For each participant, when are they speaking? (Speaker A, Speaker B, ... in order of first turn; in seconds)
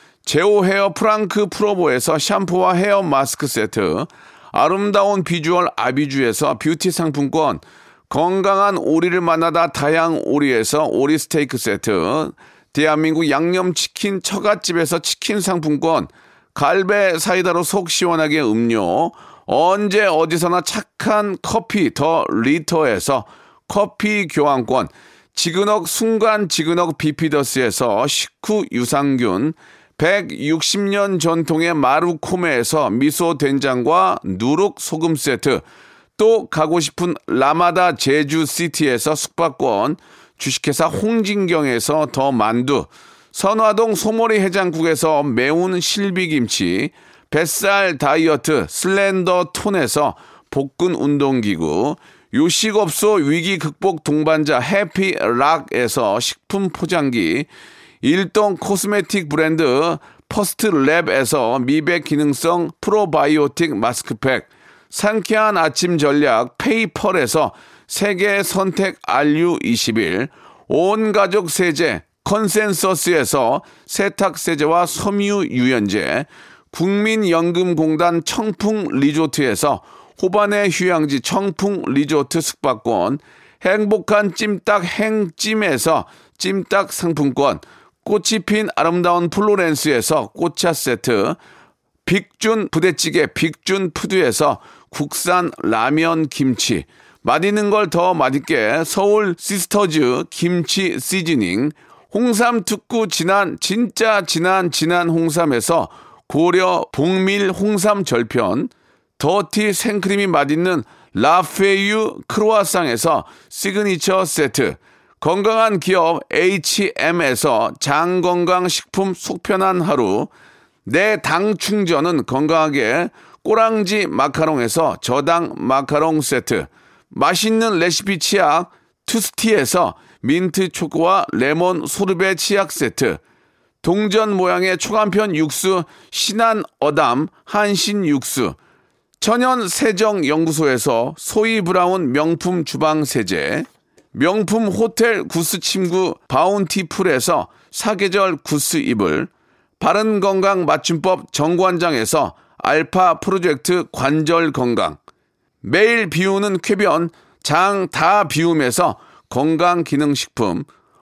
Speaker A: 0.2-35.6, 36.2-57.5, 58.0-91.4, 92.0-120.3, 120.8-133.2, 133.8-138.6, 139.2-155.0, 155.6-160.7